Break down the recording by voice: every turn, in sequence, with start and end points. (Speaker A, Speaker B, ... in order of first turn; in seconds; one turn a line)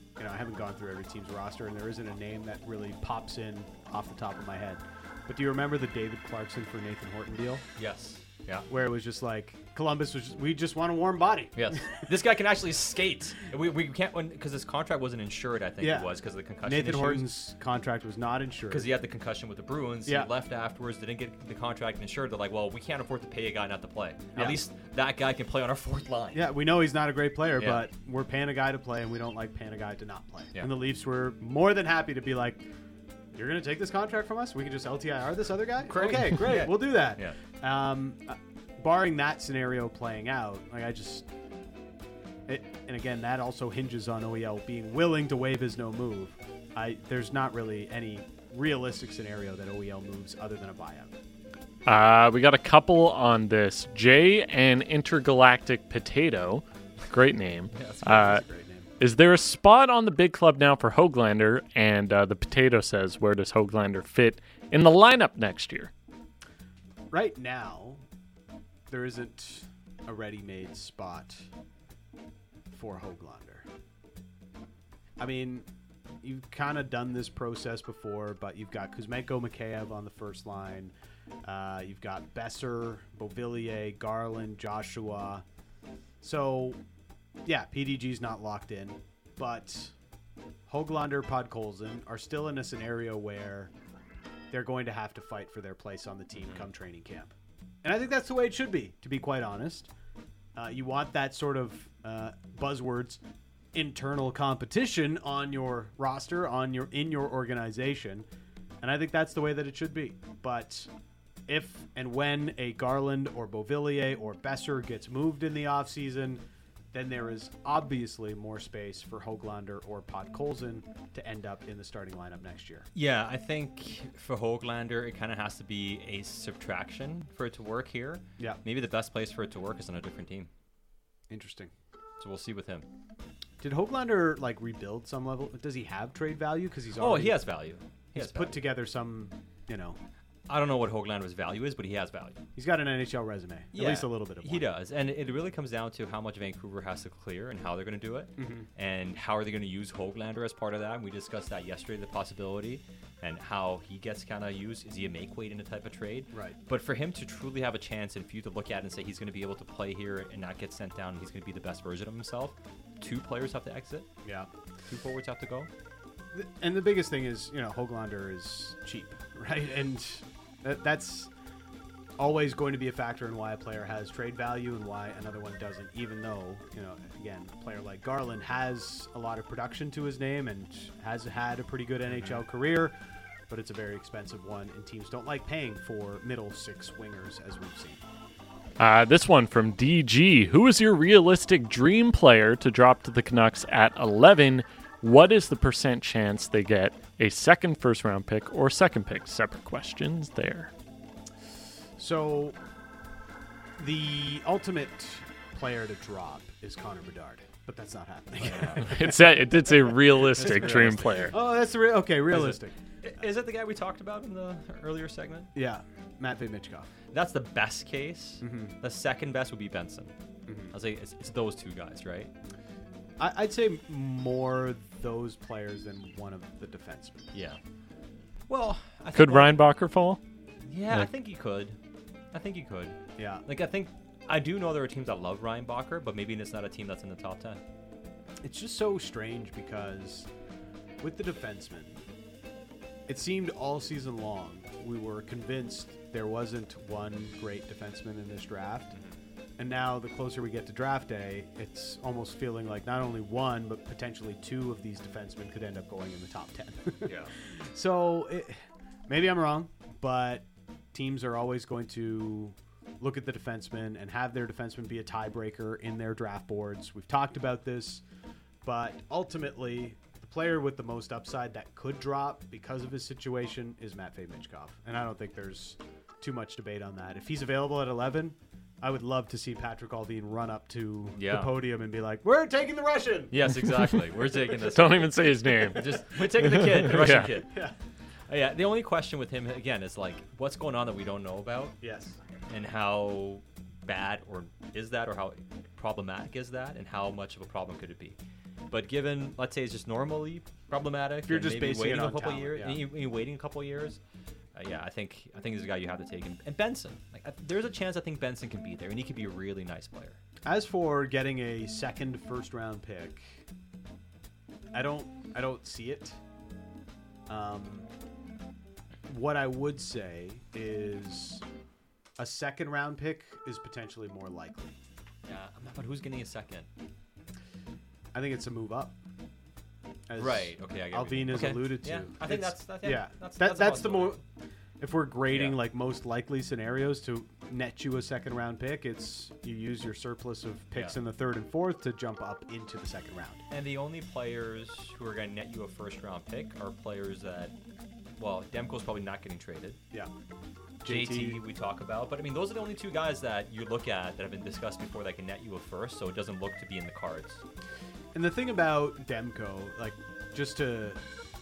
Speaker A: 0.2-7.7
Speaker B: 7.8-8.7
Speaker A: 8.7-11.6
Speaker B: 11.6-17.3
Speaker A: 15.8-16.1
Speaker A: 16.6-18.9
Speaker B: 18.7-26.5
Speaker A: 26.3-32.6
Speaker B: 27.6-27.9
Speaker A: 33.3-41.3
Speaker B: 35.9-37.4
Speaker A: 42.5-51.1
Speaker C: 51.9-58.4
Speaker B: 57.7-58.4
Speaker A: 58.0-58.9
Speaker C: 59.0-65.9
Speaker A: 67.1-68.0
Speaker A: 68.9-71.5
Speaker A: 72.7-73.7
Speaker A: 75.2-75.7
Speaker A: 76.2-80.9
Speaker A: 81.4-85.4
Speaker A: 86.2-86.8
Speaker A: 87.5-89.9
Speaker A: 90.7-93.7
Speaker A: 94.5-97.3
Speaker B: 96.4-96.7
Speaker A: 97.8-99.9
Speaker A: 100.6-103.2
Speaker A: 103.7-108.3
Speaker A: 108.8-110.9
Speaker A: 111.5-116.4
Speaker A: 116.9-122.9
Speaker B: 123.0-130.5
Speaker A: 131.3-131.7
Speaker B: 132.2-132.9
Speaker A: 133.6-137.4
Speaker B: 137.0-138.6
Speaker A: 138.2-140.0
Speaker B: 140.5-142.4
Speaker A: 142.6-144.7
Speaker B: 143.7-164.1
Speaker A: 148.4-148.7
Speaker A: 156.3-156.6
Speaker B: 164.9-165.7
Speaker A: 166.3-171.3
Speaker A: 172.2-182.9
Speaker B: 182.1-182.4
Speaker A: 183.5-188.0
Speaker C: 188.8-200.7
Speaker A: 202.0-202.6
Speaker A: 203.8-212.8
Speaker B: 208.4-208.9
Speaker C: 208.8-211.3
Speaker B: 210.4-211.4
Speaker B: 212.3-215.5
Speaker A: 215.6-216.9
Speaker B: 217.1-220.1
Speaker A: 218.4-218.8
Speaker A: 220.5-220.7
Speaker B: 220.7-222.3
Speaker A: 223.2-227.3
Speaker B: 227.3-227.6
Speaker B: 228.5-229.6
Speaker C: 229.1-230.2
Speaker B: 230.7-231.8
Speaker B: 232.3-237.6
Speaker A: 233.2-233.4
Speaker A: 238.4-240.3
Speaker A: 241.0-242.0
Speaker A: 243.1-248.9
Speaker A: 249.6-268.0
Speaker B: 257.1-257.3
Speaker A: 268.6-283.4
Speaker B: 281.2-281.5
Speaker B: 283.3-287.5
Speaker C: 284.6-287.3
Speaker B: 288.3-291.8
Speaker A: 291.8-292.2
Speaker B: 292.5-298.2
Speaker B: 298.7-304.0
Speaker A: 301.3-302.8
Speaker B: 304.6-310.2
Speaker A: 310.4-313.2
Speaker A: 314.7-316.2
Speaker A: 317.3-317.9
Speaker A: 319.1-321.4
Speaker A: 322.2-324.8
Speaker B: 325.2-326.7
Speaker A: 328.1-329.0
Speaker A: 330.1-334.2
Speaker B: 330.2-334.2
Speaker A: 334.8-343.4
Speaker B: 335.3-335.6
Speaker B: 343.5-347.6
Speaker B: 348.2-349.8
Speaker A: 350.8-351.4
Speaker B: 350.9-357.4
Speaker A: 358.1-361.0